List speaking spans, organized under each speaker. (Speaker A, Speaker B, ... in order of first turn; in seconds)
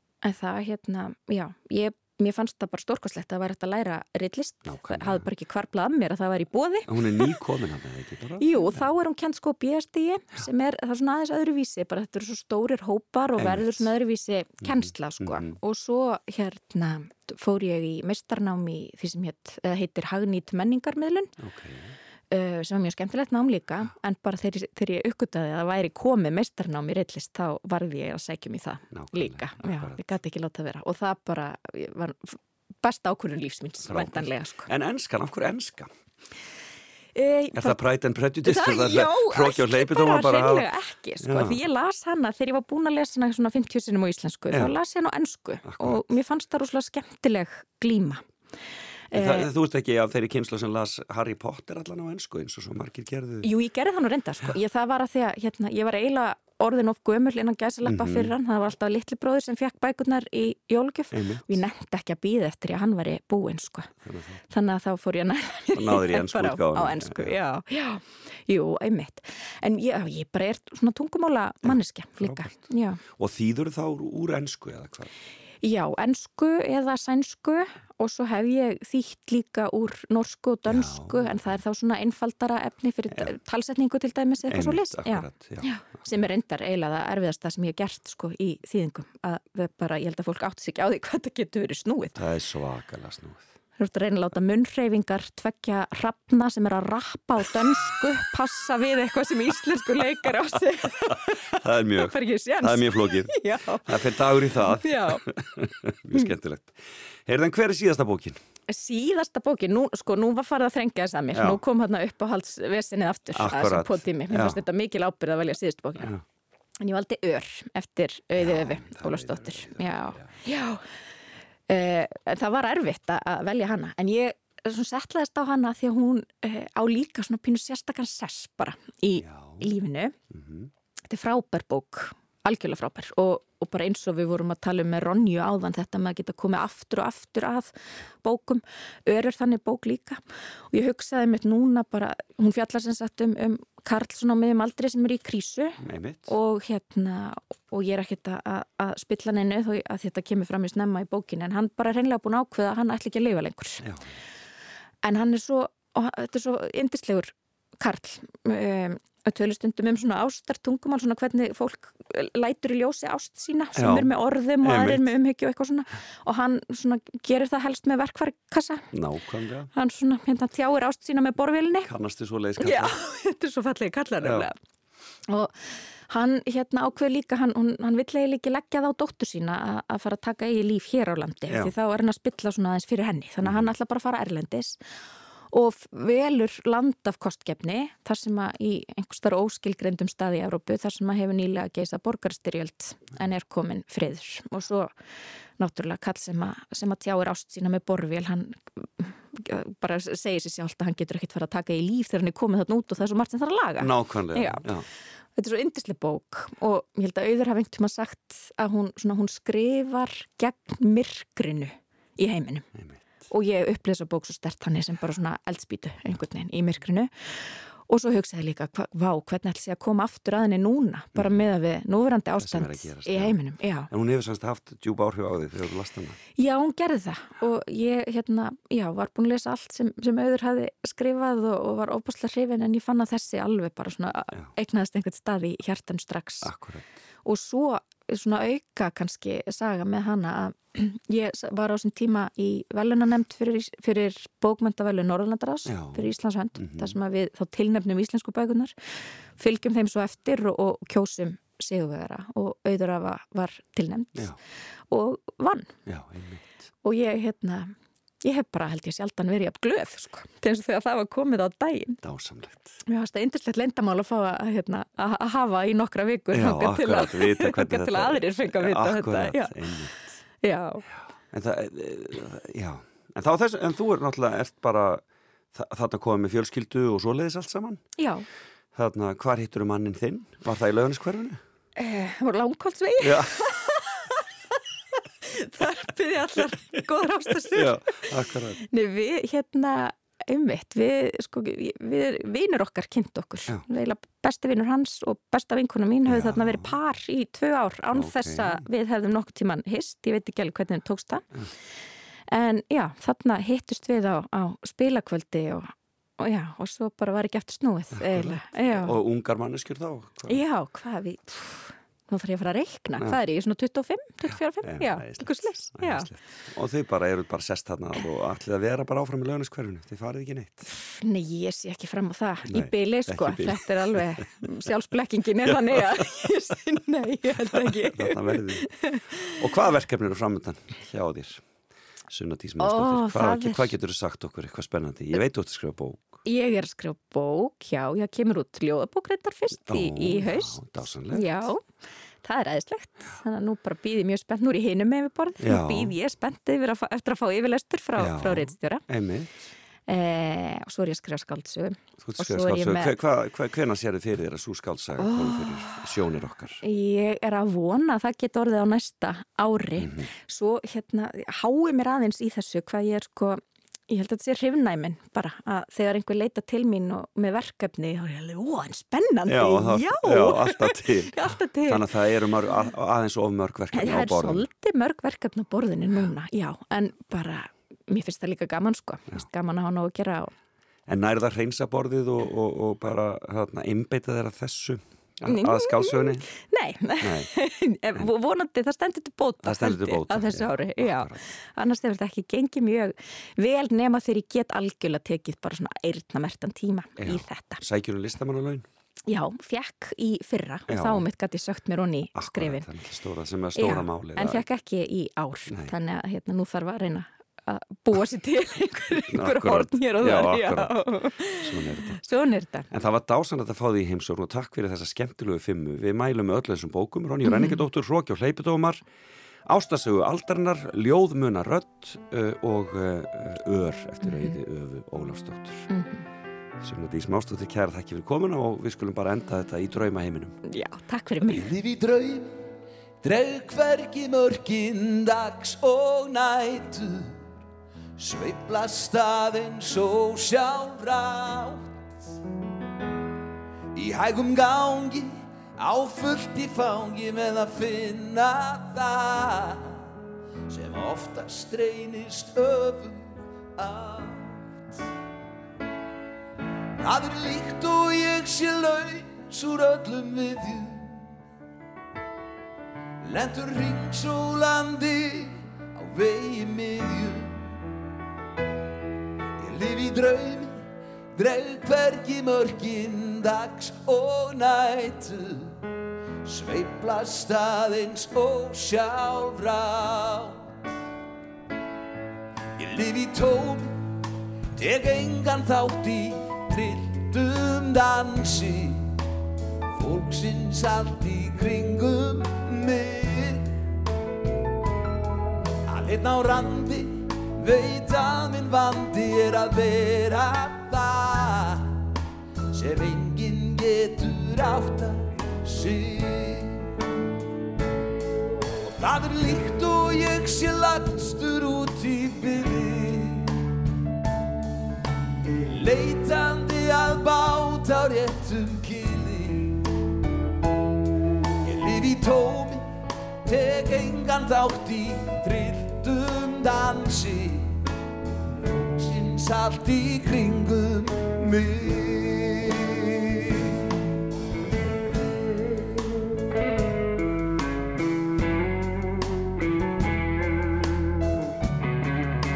Speaker A: 0.2-7.4, 8.4-21.3, 22.3-34.7, 37.1-37.8, 38.4-48.2, 49.1-49.5, 53.4-63.9, 64.5-73.0, 75.6-92.2, 93.8-105.2, 108.7-116.1, 116.8-120.8, 121.7-130.2, 131.1-153.8, 155.0-168.8, 169.7-171.9, 172.6-174.5, 175.3-175.5, 176.1-184.8, 185.5-194.9, 195.6-204.7, 205.3-212.7, 213.3-223.9, 226.3-236.5, 237.2-248.7, 249.4-254.3, 254.9-255.7, 256.8-257.7, 258.2-262.0, 262.9-269.8, 270.4-270.8, 278.0-278.2, 281.8-284.0, 285.2-288.1, 288.6-301.2, 302.3-309.0, 310.3-316.1, 320.7-329.4, 332.6-333.7, 336.2-341.6, 342.2-348.9, 349.9-353.0, 355.0-355.8, 356.6-371.9, 373.7-380.3, 385.3-397.6, 399.1-402.6, 403.6-412.7, 417.2-417.6, 424.0-424.3, 425.7-426.0, 430.5-431.5
Speaker B: 4.7-5.3, 6.9-8.8, 13.3-13.9, 14.6-15.6, 21.4-21.9, 28.9-30.1, 33.9-35.9, 37.5-40.7, 41.2-41.6, 45.6-46.0, 49.1-53.5, 57.8-58.3, 61.1-61.6, 64.0-64.4, 65.7-67.3, 71.6-75.1, 80.7-81.6, 84.5-86.1, 92.1-93.5, 101.0-108.4, 111.3-111.6, 113.3-114.6, 118.3-120.3, 129.2-129.7, 130.3-130.7, 145.8-146.3, 153.8-154.2, 163.8-165.1, 168.9-169.7, 171.8-173.0, 174.2-174.5, 183.4-183.7, 203.8-204.8, 212.7-213.0, 221.1-221.4, 222.4-223.4, 223.9-226.2, 236.4-236.9, 245.7-246.9, 255.8-256.7, 262.0-262.8, 266.3-270.1, 271.3-275.0, 275.5-277.8, 278.7-281.4, 283.0-283.3, 287.5-288.6, 296.0-296.8, 297.9-298.6, 307.9-310.4, 314.2-320.6, 322.5-324.2, 325.7-326.0, 327.6-328.6, 329.3-331.4, 332.1-336.2, 339.6-341.5, 345.4-345.9, 348.0-349.3, 352.0-356.6, 359.8-360.1, 369.3-374.5, 380.9-386.2, 387.0-387.3, 389.4-391.2, 397.0-398.6, 400.7-401.0, 402.1-404.4, 409.1-412.0, 412.7-418.8, 419.4-425.7, 426.6-430.3
Speaker C: 431.3-432.4, 433.0-437.2, 438.0-441.8, 443.7-449.8, 450.5-454.3, 456.8-461.0, 463.0-467.4, 469.4-470.6, 471.1-475.5, 476.2-480.4, 482.6-483.8, 484.6-488.9, 489.7-493.5, 495.7-501.7, 502.5-506.6, 508.6-513.3, 515.4-519.5, 521.4-522.6, 523.2-527.5, 528.7-533.3